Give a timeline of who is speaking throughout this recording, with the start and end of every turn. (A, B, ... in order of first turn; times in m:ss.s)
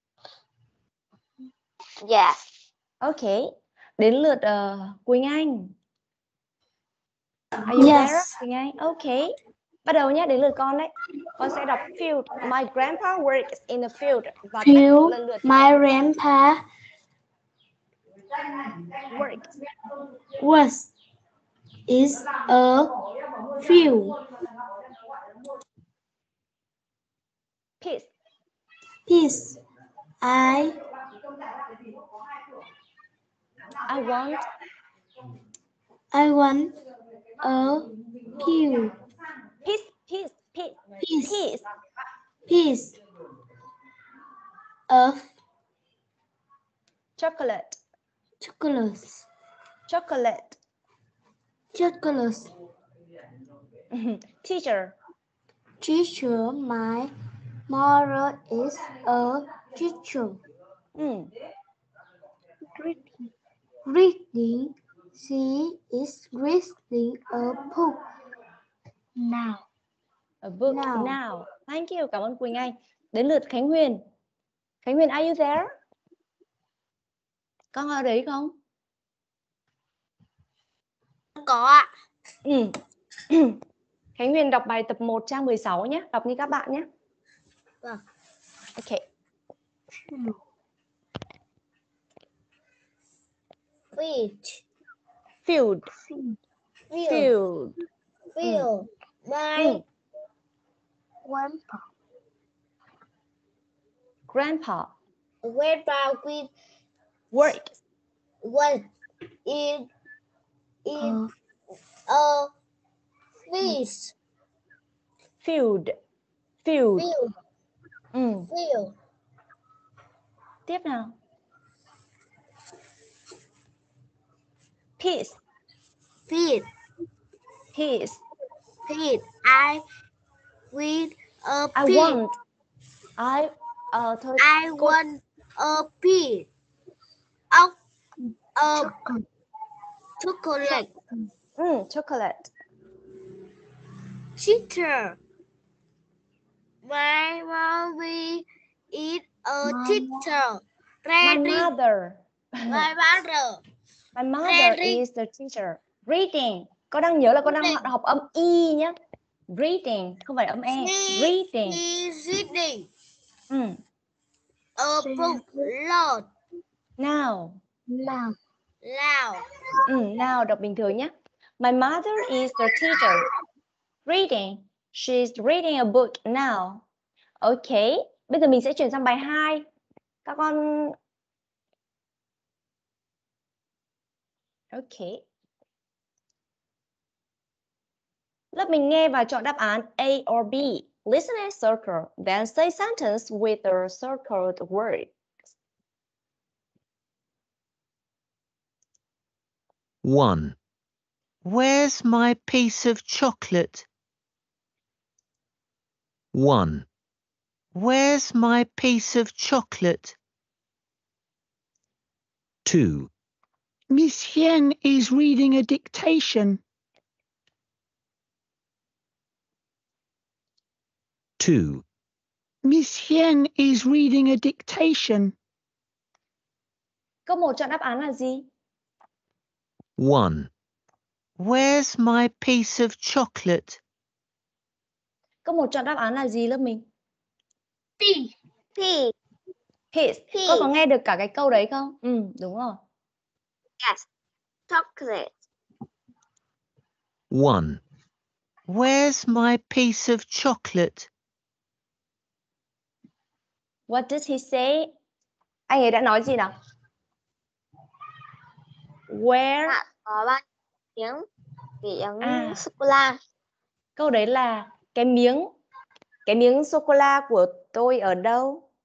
0:02.0-0:02.4 A
0:03.0-0:05.7 B
0:07.7-0:15.7 B
0:07.8-0:08.1 C
0:15.5-0:16.6 C
0:19.0-0:19.5 B
0:20.5-0:20.8 D
0:21.9-0:22.8 D
0:22.3-0:22.7 C
0:27.8-0:28.1 B
0:30.3-0:30.6 C
0:33.8-0:34.4 B
0:36.1-0:36.7 D
0:37.4-0:37.8 D
0:38.4-0:38.9 D
0:39.6-0:41.6 B
0:41.0-0:41.3 D
0:42.5-0:42.9 D
0:44.9-0:45.2 D
0:47.2-0:47.8 B
0:48.4-0:49.2 D
0:49.9-0:50.6 B
0:51.7-0:52.5 D
0:53.9-0:55.0 B
0:55.8-0:57.1 D
0:57.7-1:00.4 D
1:01.0-1:01.3 B
1:02.8-1:03.1 D
1:03.8-1:07.9 D
1:09.2-1:09.6 D
1:10.4-1:14.0 B
1:10.7-1:11.1 D
1:14.8-1:15.7 B
1:17.7-1:18.5 B
1:21.4-1:21.9 C
1:22.4-1:22.7 B
1:23.3-1:23.6 B
1:24.2-1:26.9 B
1:28.8-1:29.0 B
1:30.1-1:30.3 D
1:33.9-1:34.6 C
1:35.4-1:35.9 B
1:36.9-1:37.3 C
1:37.1-1:37.7 B
1:38.3-1:39.8 C
1:38.4-1:38.7 B
1:39.6-1:39.8 B
1:41.2-1:41.8 D
1:44.3-1:44.9 B
1:45.4-1:46.5 C
1:47.3-1:47.7 B
1:48.4-1:48.8 C
1:49.4-1:49.9 C
1:50.8-1:51.2 C
1:51.0-1:51.2 D
1:52.1-1:52.5 C
1:53.5-1:54.1 C
1:55.4-1:55.9 B
1:56.6-1:57.1 B
1:57.0-1:57.3 C
1:58.1-1:58.5 B
1:58.5-1:58.9 C
2:00.7-2:01.2 B
2:05.0-2:05.4 B
2:06.3-2:06.7 C
2:07.7-2:08.2 B
2:08.9-2:09.8 C
2:10.7-2:12.2 C
2:11.7-2:12.3 B
2:13.2-2:15.0 B
2:14.4-2:16.5 C
2:18.6-2:18.9 C
2:18.8-2:19.2 D
2:20.2-2:20.9 C
2:21.6-2:22.5 B
2:24.4-2:25.2 C
2:26.8-2:31.7 C
2:29.6-2:30.2 D
2:31.2-2:32.9 B
2:32.7-2:33.6 C
2:34.1-2:38.9 B
2:34.4-2:35.0 C
2:37.5-2:37.8 C
2:39.5-2:41.8 B
2:40.7-2:42.9 C
2:43.5-2:43.8 B
2:44.8-2:46.3 C
2:45.0-2:45.7 D
2:47.0-2:47.6 B
2:47.9-2:48.4 D
2:48.8-2:49.4 C
2:49.9-2:53.3 B
2:54.0-2:56.8 B
2:57.4-2:59.6 B
3:00.2-3:01.0 B
3:04.7-3:05.2 B
3:08.5-3:15.1 B
3:20.0-3:20.6 E
3:21.4-3:23.9 E
3:26.3-3:26.9 E
3:27.7-3:30.2 E
3:32.6-3:33.1 E
3:33.9-3:36.6 F
3:41.4-3:41.8 E
3:42.6-3:45.3 F
3:47.2-3:48.5 B
3:50.0-3:50.5 E
3:51.4-3:53.8 E
3:55.4-3:56.8 B
3:58.0-3:58.3 D
3:58.8-3:59.1 A
3:59.9-4:02.8 B
4:00.3-4:00.7 A
4:03.8-4:04.0 A
4:04.7-4:05.3 A
4:07.3-4:07.8 E
4:08.7-4:11.1 E
4:13.9-4:14.9 B
4:15.7-4:16.5 B
4:19.1-4:19.8 B
4:19.7-4:20.4 A
4:21.0-4:21.2 A
4:21.8-4:23.2 A
4:22.2-4:22.6 B
4:24.0-4:25.5 B
4:26.2-4:28.6 B